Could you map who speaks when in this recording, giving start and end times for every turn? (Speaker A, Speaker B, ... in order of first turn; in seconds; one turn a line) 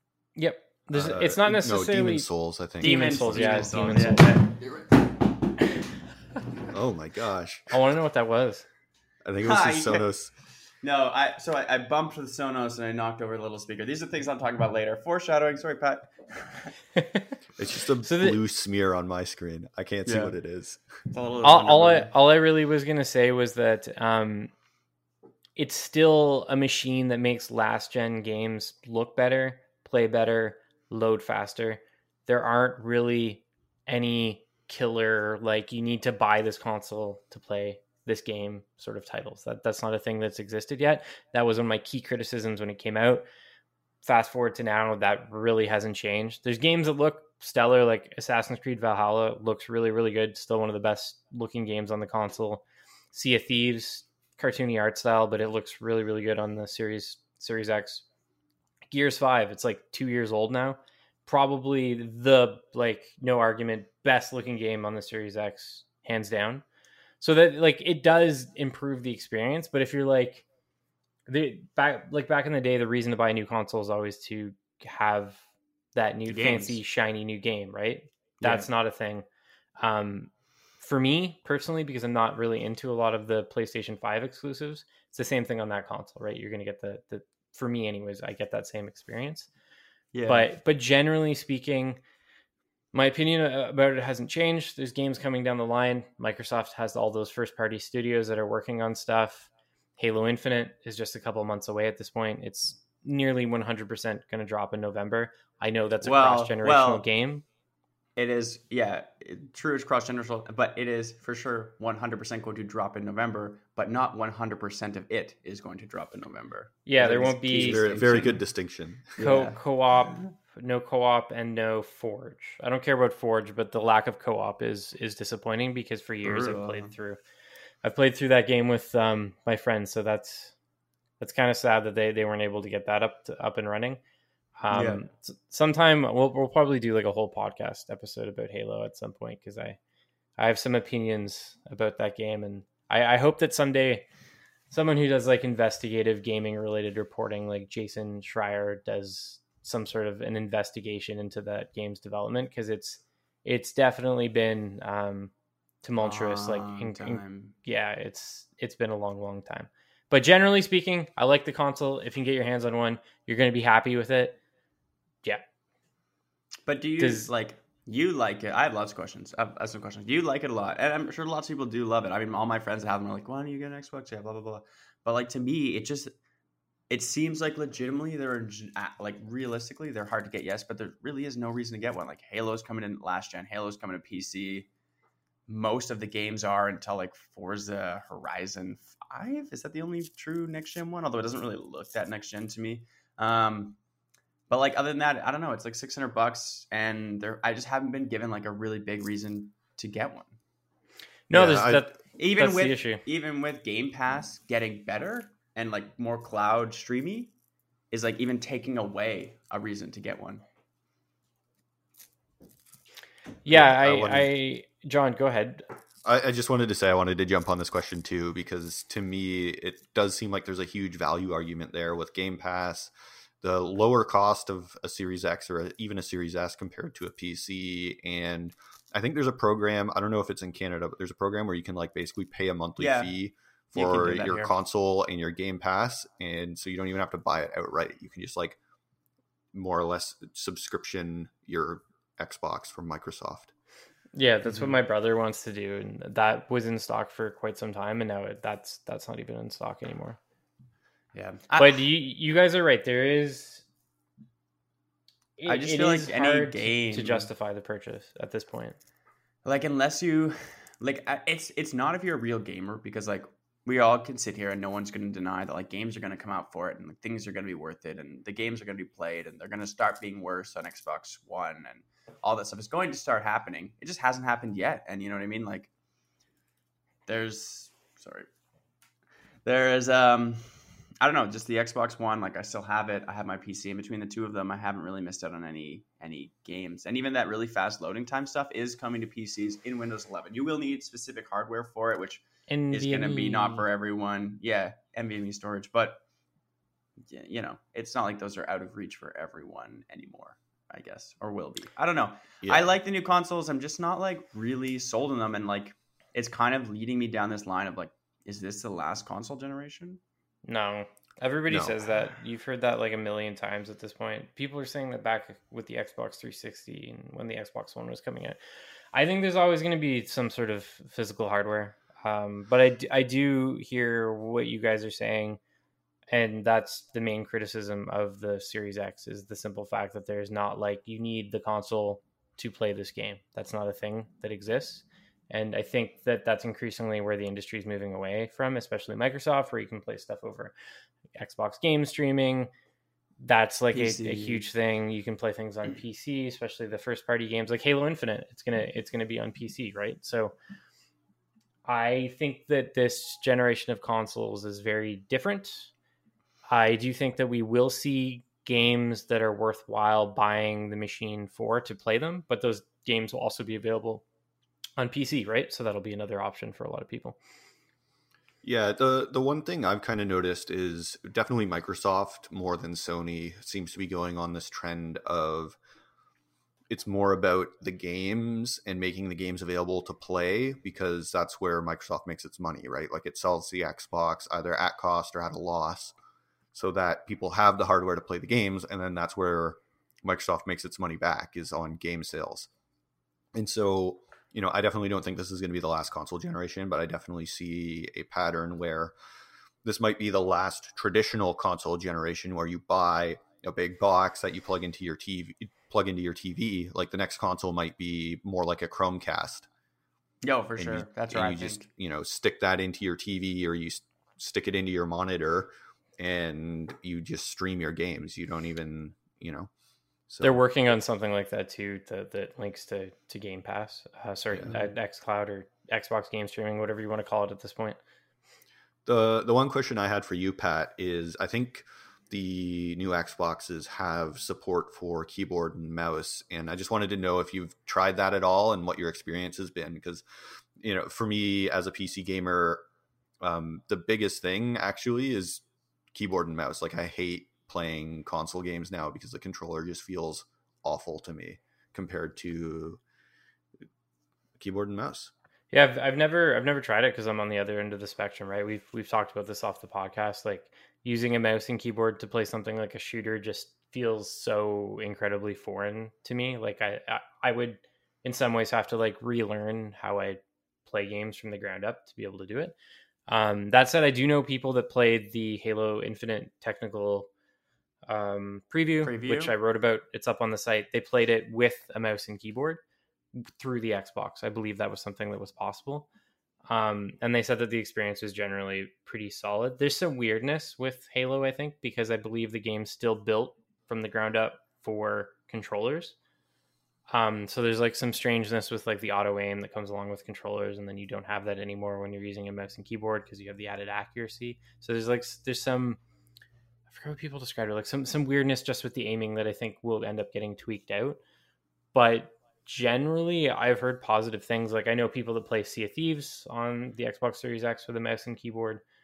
Speaker A: 0.3-2.3
Speaker B: 0.9-4.1
Speaker A: 2.8-4.4
Speaker C: 2.8-4.6
Speaker B: 6.7-7.7
Speaker A: 7.7-8.7
Speaker B: 9.2-10.3
Speaker C: 9.4-10.1
Speaker C: 10.8-16.8
Speaker A: 16.9-17.3
Speaker B: 17.6-20.8
Speaker A: 18.0-18.4
Speaker C: 20.0-20.3
Speaker C: 21.1-22.1
Speaker A: 21.4-24.5
Speaker A: 25.6-43.2
Speaker A: 44.0-58.0
Speaker A: 58.9-66.6
Speaker A: 67.2-70.4
Speaker A: 71.3-75.4
Speaker A: 76.0-79.2
Speaker C: 76.3-76.8
Speaker C: 78.4-78.7
Speaker A: 79.8-80.3
Speaker A: 80.8-89.5
Speaker C: 90.1-90.5
Speaker A: 90.2-92.0
Speaker A: 92.9-107.4
Speaker C: 106.0-107.0
Speaker C: 108.2-118.4
Speaker A: 116.8-117.9
Speaker B: 117.0-119.3
Speaker C: 119.2-120.3
Speaker A: 119.2-127.2
Speaker C: 126.2-126.9
Speaker A: 127.8-130.5
Speaker A: 131.2-134.0
Speaker A: 134.6-139.8
Speaker C: 134.7-135.0
Speaker A: 140.4-144.1
Speaker A: 144.7-155.3
Speaker A: 155.8-164.4
Speaker C: 156.0-157.5
Speaker C: 166.7-176.1
Speaker A: 167.0-167.3
Speaker C: 176.9-184.7
Speaker C: 185.5-193.8
Speaker C: 194.5-200.3
Speaker A: 201.3-203.0
Speaker B: 201.3-201.8
Speaker C: 202.1-207.3
Speaker C: 207.9-210.4
Speaker A: 213.4-215.7
Speaker B: 213.5-214.3
Speaker B: 216.0-238.6
Speaker C: 232.8-233.1
Speaker C: 233.7-234.5
Speaker B: 239.5-243.5
Speaker A: 244.1-250.2
Speaker C: 244.4-244.7
Speaker C: 251.1-251.9
Speaker A: 251.6-253.6
Speaker A: 255.4-258.8
Speaker C: 255.4-257.3
Speaker C: 259.4-275.7
Speaker C: 277.1-278.3
Speaker C: 279.4-296.0
Speaker A: 292.5-293.6
Speaker C: 297.1-310.0
Speaker B: 302.4-302.7
Speaker A: 310.4-318.4
Speaker B: 311.5-311.8
Speaker A: 318.9-325.4
Speaker A: 326.1-340.5
Speaker A: 341.1-342.5
Speaker A: 343.2-350.3
Speaker C: 343.7-344.4
Speaker A: 351.6-355.7
Speaker A: 356.5-364.0
Speaker A: 364.8-367.2
Speaker B: 368.4-375.6
Speaker B: 376.7-385.9
Speaker B: 386.5-392.5
Speaker B: 393.3-398.9
Speaker B: 399.6-409.5
Speaker C: 410.2-411.6
Speaker B: 410.6-419.5
Speaker B: 420.1-420.4
Speaker A: 420.2-427.8
Speaker B: 424.3-424.6
Speaker B: 428.9-440.0
Speaker B: 440.6-442.6
Speaker B: 443.2-445.4
Speaker B: 445.9-452.8
Speaker B: 454.4-455.1
Speaker A: 455.5-472.5
Speaker A: 473.1-477.1
Speaker A: 477.9-482.6
Speaker C: 478.8-479.3
Speaker A: 483.1-485.9
Speaker A: 486.5-495.9
Speaker A: 496.9-505.8
Speaker A: 506.7-511.0
Speaker A: 511.7-518.6